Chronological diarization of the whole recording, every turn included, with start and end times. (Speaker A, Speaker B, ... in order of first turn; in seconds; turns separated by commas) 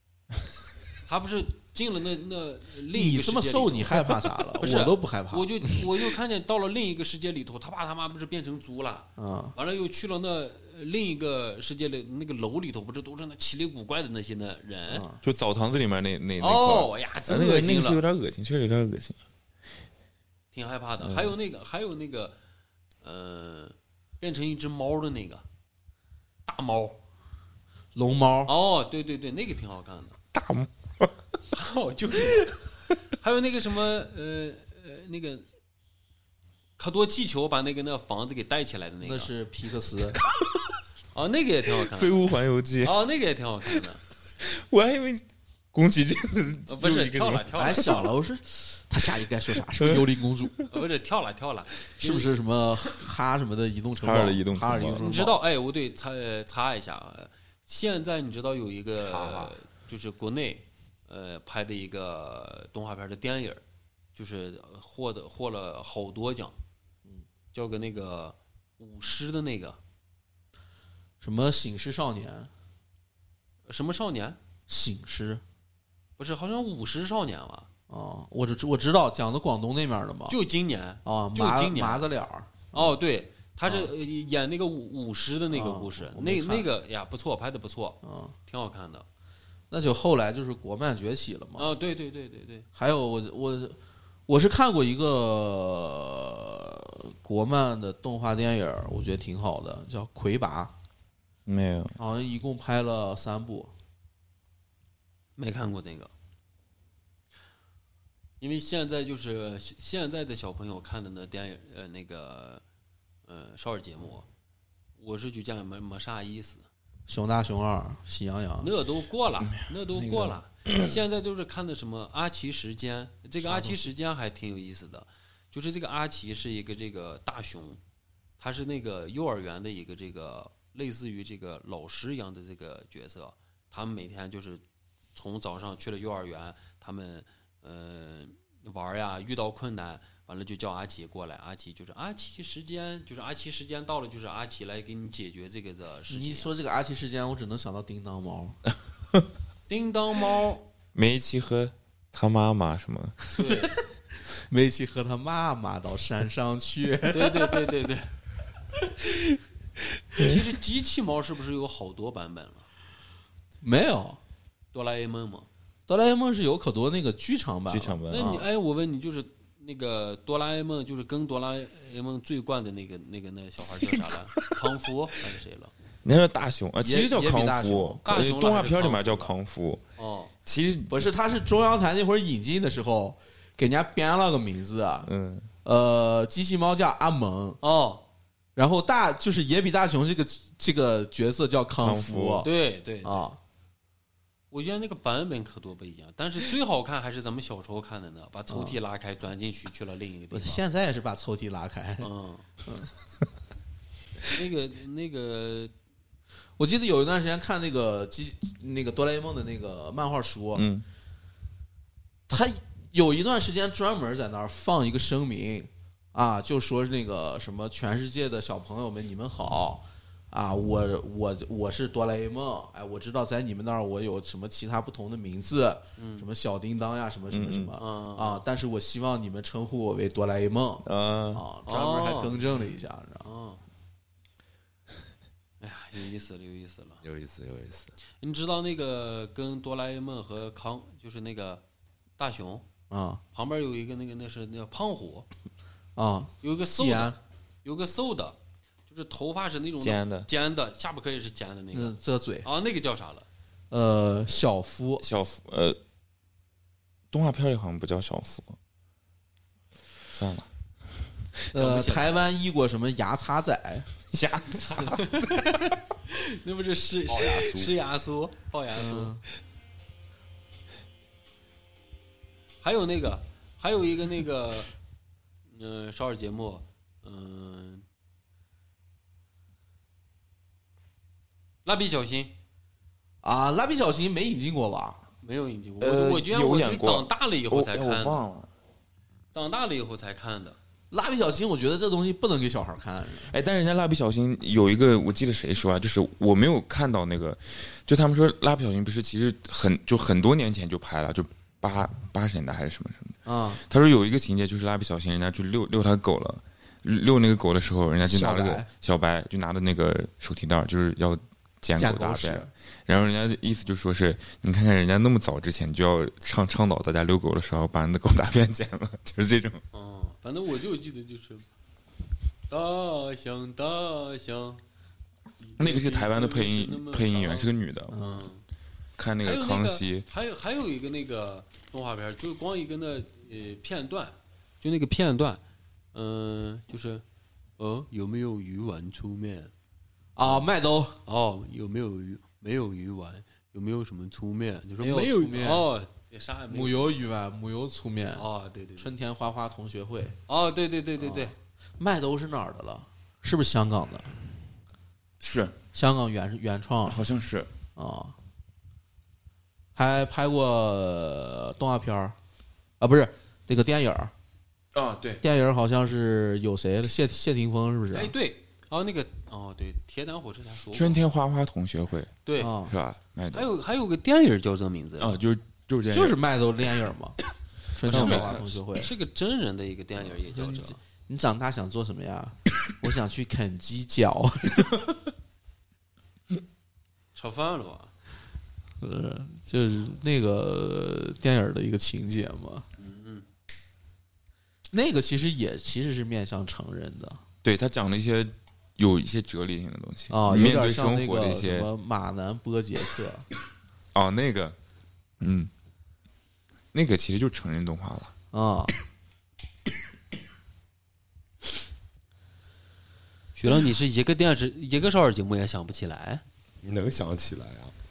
Speaker A: 1.1-15.1, Speaker B: 2.9-5.8, Speaker B: 9.2-9.5, Speaker B: 14.9-15.2, Speaker C: 15.2-19.2, Speaker A: 16.4-18.0, Speaker A: 20.5-22.4, Speaker C: 21.0-21.4, Speaker A: 23.0-25.4, Speaker A: 26.5-27.0, Speaker B: 27.9-28.5, Speaker A: 28.5-30.2, Speaker C: 30.3-31.1, Speaker A: 31.5-32.7, Speaker A: 33.2-35.5, Speaker A: 36.8-39.3, Speaker B: 39.0-40.2, Speaker C: 40.3-40.7, Speaker A: 41.1-44.0, Speaker C: 41.8-43.0, Speaker C: 44.4-48.0, Speaker A: 46.7-48.1, Speaker B: 47.6-50.5, Speaker C: 49.8-50.6, Speaker A: 50.7-52.3, Speaker B: 52.0-55.4, Speaker C: 54.0-55.0, Speaker A: 55.0-63.6, Speaker D: 59.1-59.5, Speaker A: 64.2-66.5, Speaker A: 67.5-69.8, Speaker B: 71.2-72.5, Speaker A: 73.7-74.4, Speaker B: 74.7-75.4, Speaker A: 76.2-77.7, Speaker B: 77.9-80.4, Speaker A: 80.3-82.1, Speaker B: 81.0-83.0, Speaker A: 82.7-89.1, Speaker B: 83.7-83.9, Speaker B: 85.5-86.7, Speaker B: 88.0-88.3, Speaker B: 89.7-91.7, Speaker A: 91.6-92.7, Speaker B: 92.8-100.7, Speaker C: 101.5-102.0, Speaker B: 102.0-103.7, Speaker A: 105.4-106.1, Speaker A: 108.4-112.6, Speaker A: 113.3-114.3, Speaker A: 115.0-116.7, Speaker B: 117.1-118.7, Speaker A: 118.6-127.8, Speaker C: 119.4-120.9, Speaker B: 123.4-123.8, Speaker A: 128.4-134.6, Speaker A: 135.2-146.5, Speaker B: 146.1-148.6, Speaker A: 149.7-150.7, Speaker C: 150.9-153.2, Speaker A: 153.3-153.7, Speaker B: 154.3-157.6, Speaker A: 157.1-158.1, Speaker A: 160.2-162.7, Speaker B: 163.6-164.2, Speaker A: 164.7-165.5, Speaker B: 165.9-168.4, Speaker C: 167.7-168.4, Speaker A: 168.1-175.7, Speaker C: 173.9-174.6, Speaker C: 176.0-179.8, Speaker B: 176.8-178.0, Speaker A: 178.1-179.3, Speaker A: 180.0-180.3, Speaker C: 180.5-181.0, Speaker B: 180.9-185.1, Speaker C: 185.1-185.5, Speaker B: 185.6-187.6, Speaker A: 187.6-188.0, Speaker B: 188.6-192.5, Speaker C: 191.8-192.5, Speaker A: 192.4-193.3, Speaker B: 193.0-193.4, Speaker A: 194.5-200.6, Speaker B: 198.5-198.8, Speaker B: 200.3-202.1, Speaker A: 202.0-202.5, Speaker B: 202.7-202.9, Speaker A: 204.3-205.7, Speaker B: 206.6-210.7, Speaker C: 210.6-210.8, Speaker B: 212.3-233.3, Speaker A: 226.0-226.3, Speaker C: 227.3-227.7, Speaker A: 227.8-228.4, Speaker C: 230.8-231.4, Speaker A: 231.7-233.6, Speaker A: 235.6-237.0, Speaker D: 237.0-237.9, Speaker A: 238.2-241.6, Speaker A: 242.2-242.7, Speaker B: 242.9-243.2, Speaker A: 243.3-245.3, Speaker B: 246.0-247.2, Speaker A: 246.4-248.4, Speaker A: 248.9-253.3, Speaker C: 249.8-250.3, Speaker B: 251.7-252.5, Speaker B: 253.7-255.1, Speaker C: 255.0-255.8, Speaker C: 257.1-258.6, Speaker C: 260.1-260.5, Speaker A: 261.5-262.2, Speaker B: 261.5-263.9, Speaker C: 264.1-265.6, Speaker A: 264.6-269.2, Speaker D: 267.1-267.7, Speaker B: 268.8-269.2, Speaker A: 272.6-274.7, Speaker A: 275.5-277.8, Speaker A: 281.6-282.3, Speaker B: 283.2-285.0, Speaker A: 285.2-288.2, Speaker C: 285.8-288.5, Speaker A: 289.3-290.6, Speaker B: 290.9-293.3, Speaker C: 293.3-319.6, Speaker B: 303.2-303.6, Speaker B: 308.0-308.7, Speaker B: 311.8-312.5, Speaker A: 319.7-321.5, Speaker A: 322.5-324.6, Speaker A: 325.4-328.4, Speaker C: 325.6-327.9, Speaker B: 327.9-328.3, Speaker C: 329.0-330.1, Speaker A: 329.2-335.4, Speaker A: 335.9-337.0, Speaker A: 337.6-339.5, Speaker B: 340.2-341.0, Speaker A: 341.1-346.9, Speaker B: 344.8-345.7, Speaker B: 346.5-348.2, Speaker A: 348.2-348.9, Speaker B: 348.8-350.2, Speaker A: 350.3-351.3, Speaker B: 351.0-354.1, Speaker C: 355.2-355.6, Speaker B: 355.7-357.0, Speaker C: 356.9-357.5, Speaker B: 357.8-358.1, Speaker B: 359.8-362.2, Speaker B: 362.8-364.1, Speaker C: 364.7-365.2, Speaker B: 365.2-368.1, Speaker A: 367.9-371.0, Speaker C: 370.7-373.5, Speaker A: 372.3-372.6, Speaker B: 372.4-372.7, Speaker A: 373.3-375.2, Speaker C: 375.0-376.2, Speaker B: 375.9-377.2, Speaker B: 377.7-378.9, Speaker C: 377.9-378.4, Speaker A: 377.9-380.8, Speaker B: 380.0-384.9, Speaker A: 387.1-387.9, Speaker B: 388.8-392.7, Speaker A: 392.8-393.3, Speaker B: 394.7-397.2, Speaker C: 397.4-401.7, Speaker B: 400.1-403.3, Speaker C: 403.9-404.6, Speaker C: 405.2-405.5, Speaker C: 406.7-408.1, Speaker B: 408.3-408.7, Speaker A: 413.4-416.2, Speaker D: 416.6-417.7